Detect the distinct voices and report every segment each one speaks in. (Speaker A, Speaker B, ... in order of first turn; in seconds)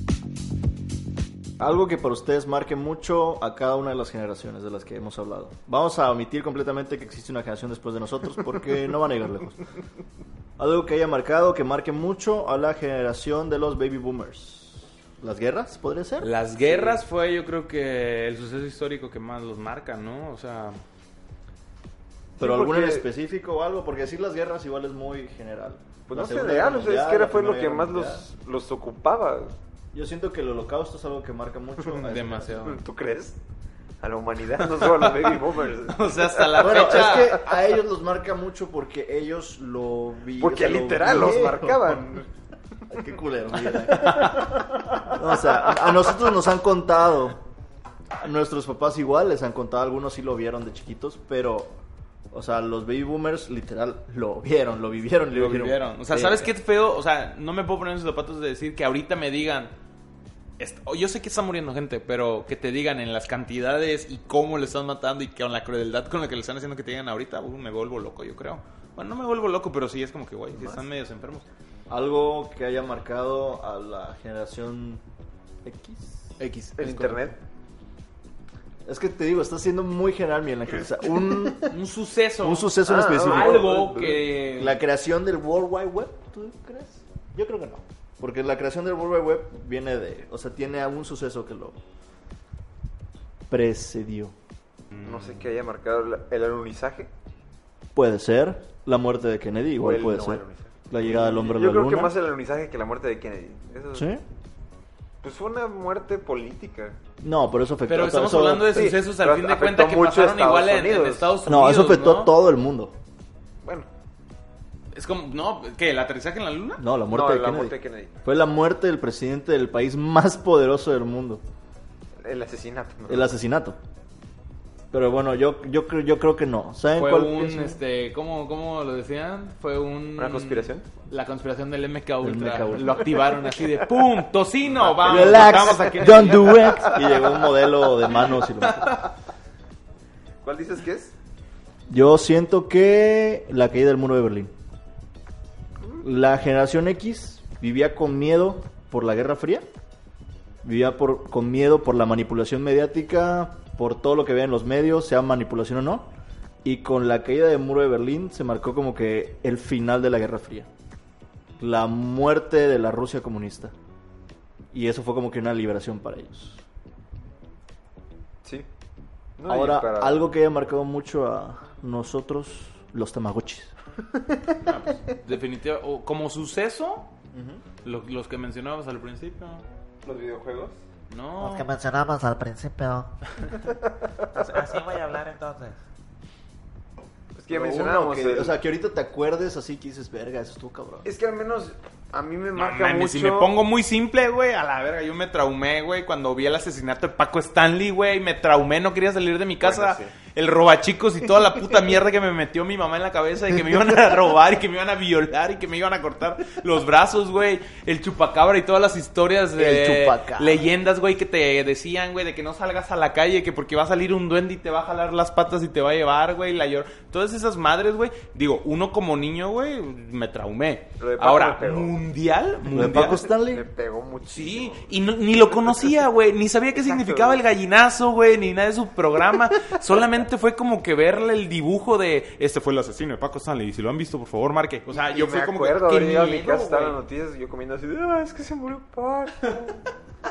Speaker A: 1.6-9.6, 10.6-16.3, 22.4-28.3, 29.9-32.5, 36.6-42.0, 42.9-47.4, 48.2-51.8, 52.3-56.5, 71.9-75.0, 75.7-76.4, 78.8-81.8, 82.4-91.8, 93.5-94.3, 98.0-102.1, 103.9-104.2, 107.2-108.8, 111.5-113.0, 116.8-121.4, 123.1-123.8, 124.9-127.8, 132.2-133.1, 134.8-139.1, 141.9-144.5, 146.0-149.7, 150.6-156.1, 156.6-160.7, 161.6-163.7, 164.7-166.6, 169.5-173.7, 177.3-177.6, 187.5-191.1, 209.6-210.6, 222.7-223.6
Speaker B: 16.2-20.8, 32.0-32.8, 34.8-37.5, 44.0-44.5, 55.3-59.7, 60.6-71.5, 76.4-77.3, 81.7-84.8, 107.9-112.3, 114.9-116.8, 126.9-136.7, 138.2-139.0, 174.6-177.1, 177.8-179.6, 181.1-181.7, 184.4-185.8, 192.6-223.3, 224.3-237.0
Speaker C: 16.6-17.0, 22.4-23.1, 26.1-29.5, 32.5-33.4, 34.0-37.5, 40.4-42.3, 43.7-46.2, 70.5-70.8, 76.8-77.4, 82.8-84.1, 95.0-97.1, 99.8-104.1, 105.2-107.0, 108.7-111.4, 117.1-118.1, 122.2-123.3, 130.2-130.9, 134.9-137.3, 140.4-141.1, 169.4-170.2, 180.1-180.8, 187.3-188.6, 191.1-193.5, 199.6-200.1, 221.0-222.0, 223.0-224.9, 226.8-227.4, 234.9-239.8
Speaker D: 181.4-183.1, 184.4-184.8